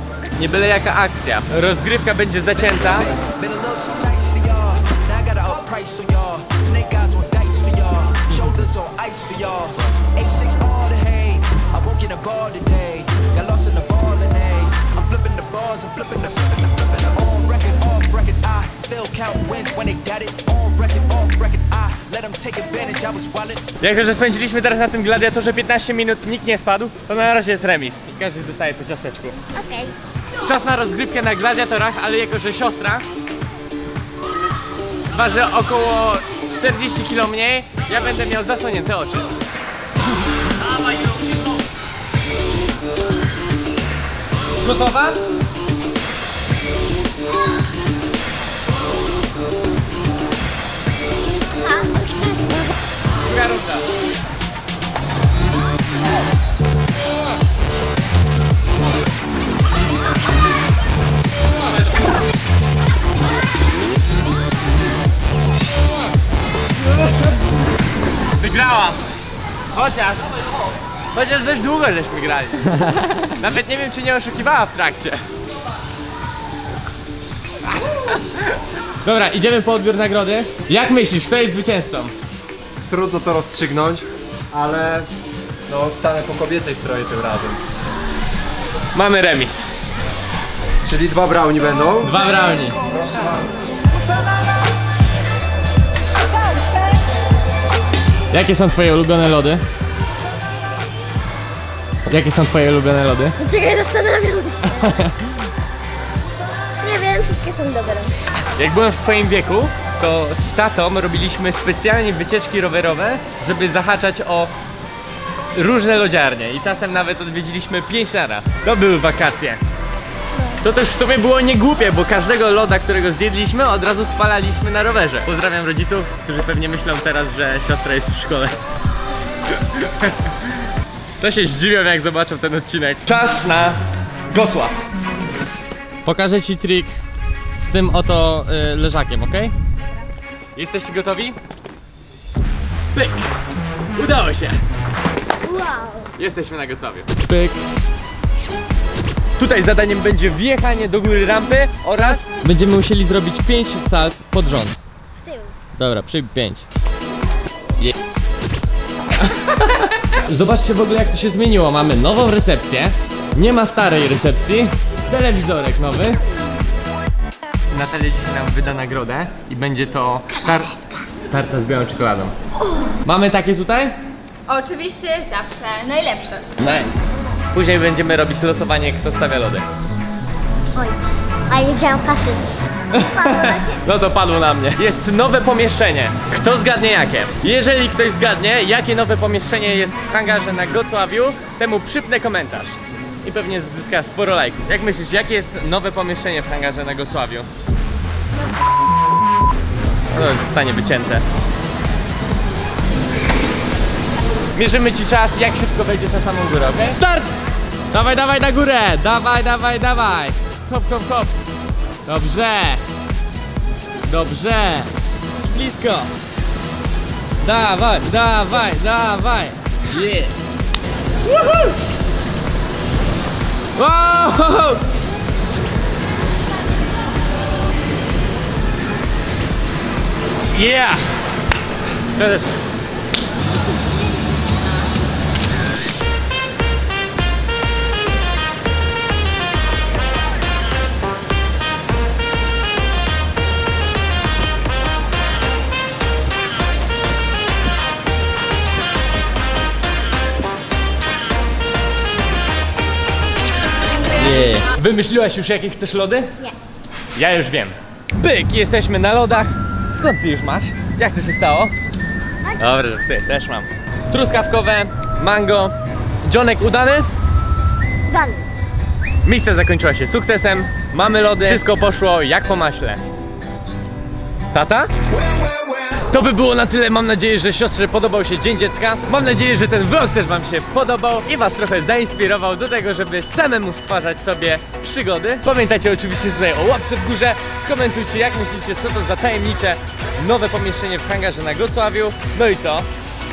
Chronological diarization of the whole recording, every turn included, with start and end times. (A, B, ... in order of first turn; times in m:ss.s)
0:00.4-0:03.1 A
0:02.8-0:23.7 B
0:23.8-0:29.4 A
0:29.6-0:30.0 C
0:30.4-0:33.0 A
0:35.1-0:39.4 A
0:40.8-0:41.3 A
0:44.6-0:45.2 A
0:51.5-0:52.7 C
0:53.2-0:53.9 A
1:08.3-1:09.0 A
1:09.7-1:15.2 A
1:17.7-1:22.1 A
1:22.9-1:25.1 D
1:25.7-1:27.6 D
1:28.9-1:29.7 A
1:30.8-1:32.2 D
1:32.0-1:32.8 A
1:32.8-1:33.5 D
1:38.3-1:39.6 A
1:42.1-1:43.4 A
1:43.4-1:44.8 C
1:44.6-1:45.3 A
1:46.8-1:48.1 C
1:48.6-1:54.5 A
1:55.5-1:59.6 A
2:00.6-2:08.6 A
2:09.6-2:10.3 A
2:11.2-2:14.8 A
2:16.0-2:17.0 A
2:17.6-2:19.6 A
2:20.6-2:21.4 A
2:22.9-2:23.3 A
2:23.9-2:24.6 A
2:25.4-2:26.1 C
2:26.2-2:27.7 A
2:29.4-2:34.8 A
2:35.2-2:35.6 C
2:35.8-2:36.7 A
2:39.2-2:46.2 A
2:47.7-2:52.3 A
2:53.0-2:54.0 A
2:54.5-2:56.5 E
2:56.6-2:59.7 A
3:01.5-3:02.4 C
3:02.9-3:17.5 A
3:03.0-3:03.8 C
3:20.1-3:21.2 A
3:24.5-3:27.3 A
3:27.9-3:31.4 A
3:32.1-3:32.8 A
3:34.0-3:34.9 A
3:35.4-3:36.1 A
3:37.4-3:40.4 A
3:41.3-3:41.7 A
3:43.7-3:44.9 A
3:50.5-3:51.1 A
3:52.2-3:52.6 A
4:14.1-4:16.4 A
4:17.1-4:21.8 A
4:22.6-4:27.1 A
4:28.1-4:28.5 C
4:29.2-4:33.0 A
4:34.5-4:34.9 A
4:36.0-4:52.9 A